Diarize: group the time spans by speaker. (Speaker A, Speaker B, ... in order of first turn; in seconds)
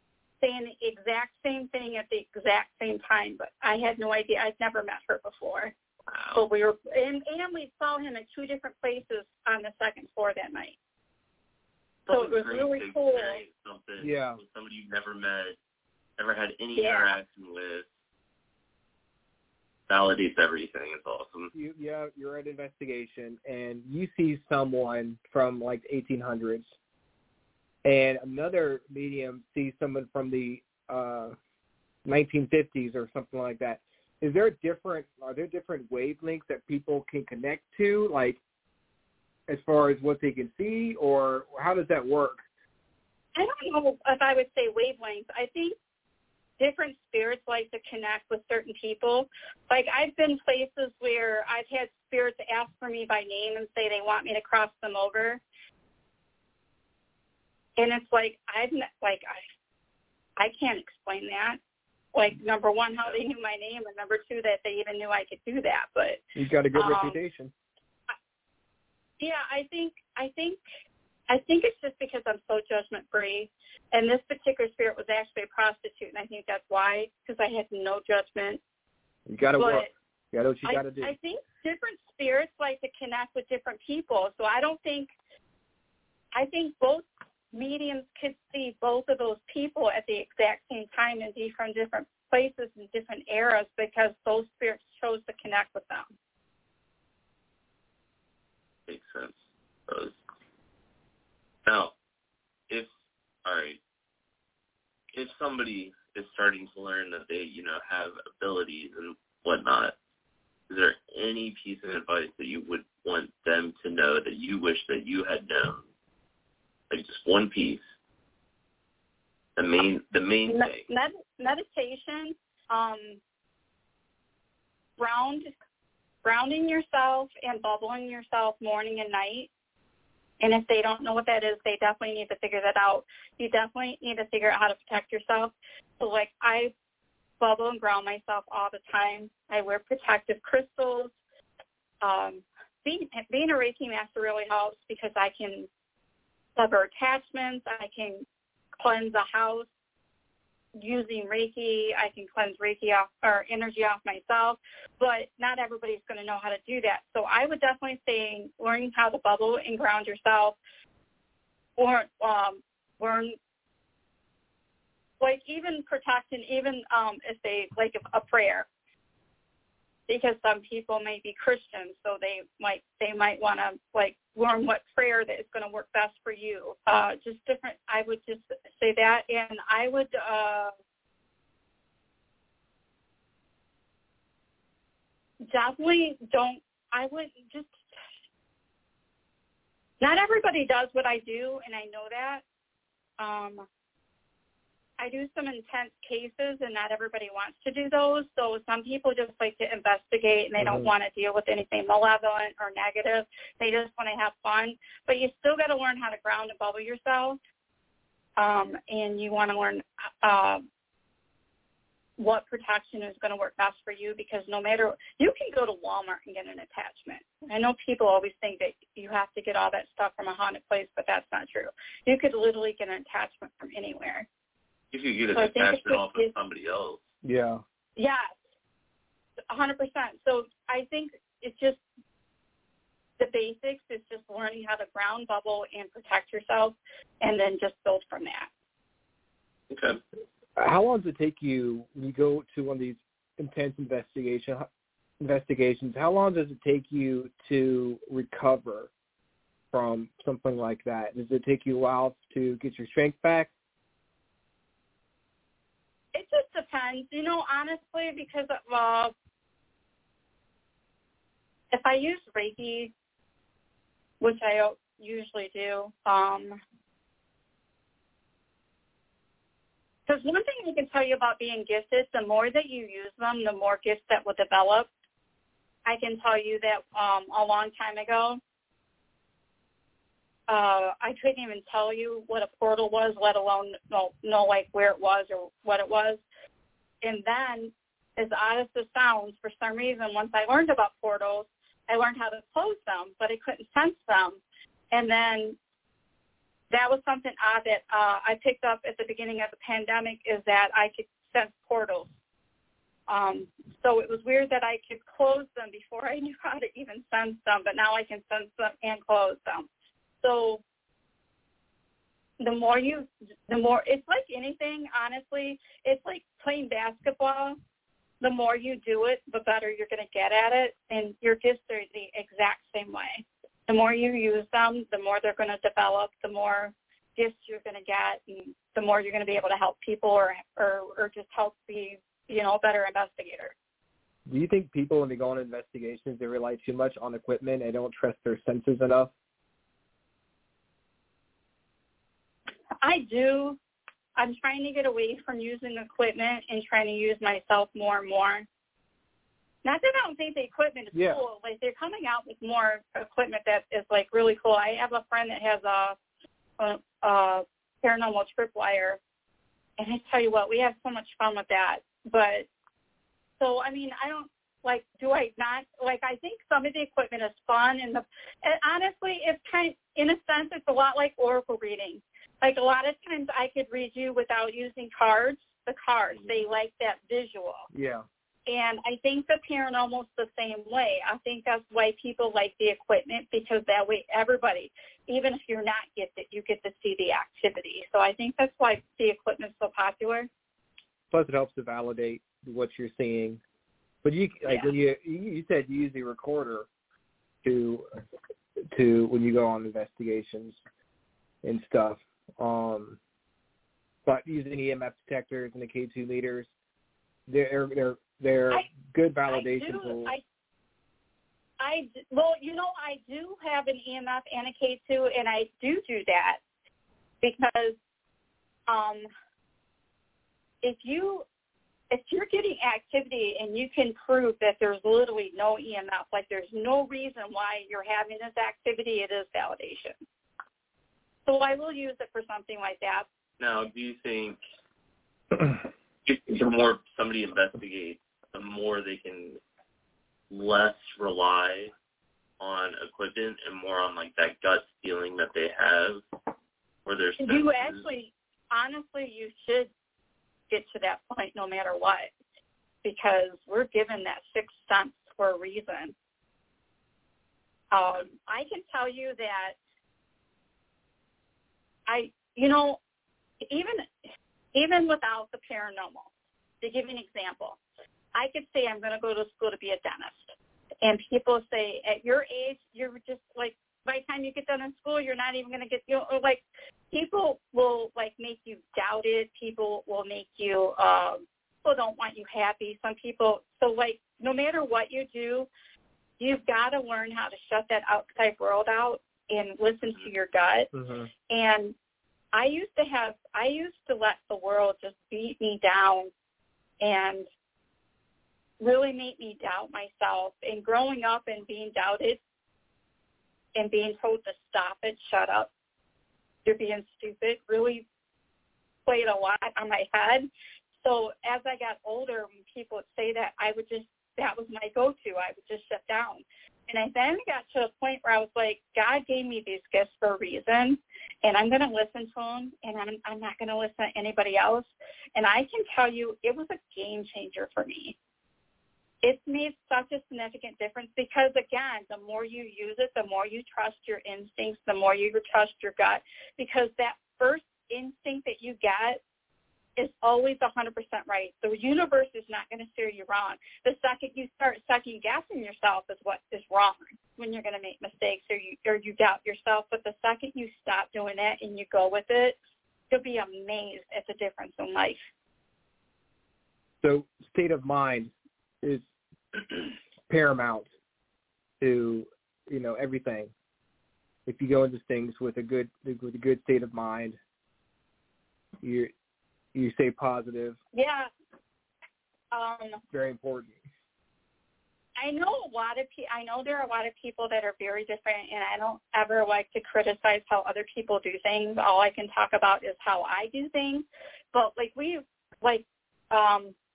Speaker A: 0.4-5.7, 6.3-10.8, 12.1-13.4, 16.8-17.1, 43.4-45.8, 46.6-55.4, 57.8-59.4, 60.4-61.6, 62.1-66.2, 66.7-67.2, 69.2-70.6, 71.3-78.6, 79.5-79.9, 80.6-85.1, 86.3-96.1, 120.5-123.2, 125.0-125.5, 126.2-129.5, 130.4-136.7, 137.4-141.1, 142.0-145.7, 146.6-148.2, 148.8-149.7, 150.8-160.6, 161.8-163.4, 165.2-168.7, 170.1-180.7, 185.5-187.7, 190.0-192.4, 193.2-193.7, 195.0-207.4, 208.4-210.7, 212.2-224.3, 225.3-226.3, 228.0-228.3, 229.5-231.8, 233.2-238.5, 256.1-259.1, 261.7-262.9, 264.2-266.6, 270.1-274.9, 275.8-278.4, 280.5-286.2, 287.0-294.4, 294.9-295.6, 296.7-302.1, 303.1-309.7, 310.2-310.6, 312.4-317.6, 318.2-333.5, 342.8-343.6, 344.1-348.5, 349.6-356.0, 356.6-359.0, 359.8-362.5, 363.4-377.7, 378.5-390.3, 394.4-394.8, 409.3-410.2, 411.6-416.4, 417.2-417.8, 418.7-419.1, 420.6-421.2, 421.9-430.0, 431.2-433.1, 447.2-449.7, 450.5-452.1, 452.8-455.9, 457.7-459.6, 461.9-462.8, 463.4-466.1, 466.6-467.6, 468.1-485.5, 486.2-490.7, 491.3-491.7, 492.3-496.1, 496.8-497.3, 498.6-502.2, 503.5-505.5, 506.4-507.9, 508.9-510.3, 510.8-528.0, 529.0-539.0, 539.8-552.4, 552.9-555.0, 570.7-571.1, 572.3-572.8, 575.0-586.5
Speaker B: 6.1-6.4, 12.1-15.6, 16.2-17.9, 19.9-21.5, 98.9-100.2, 101.6-101.9, 103.4-103.8, 105.1-110.0, 110.7-115.8, 116.9-117.8, 119.5-120.8, 224.9-227.1, 239.7-240.0, 433.4-434.4, 436.1-439.4, 440.3-441.7, 442.4-446.0, 446.8-447.9
Speaker C: 14.0-14.4, 21.5-26.7, 27.8-31.3, 32.0-38.4, 39.5-42.4, 66.4-67.5, 79.3-81.1, 200.6-200.9, 227.2-227.6, 240.6-244.7, 245.2-248.9, 249.7-253.5, 334.3-339.1, 350.9-351.2, 377.7-378.1, 391.1-393.4, 394.0-396.7, 397.4-397.9, 398.7-400.6, 401.4-403.0, 404.0-406.5, 407.3-410.1, 490.7-491.1, 556.8-558.9, 560.1-560.7, 561.6-563.3, 564.2-567.2, 568.6-568.9, 569.5-570.6, 572.9-573.6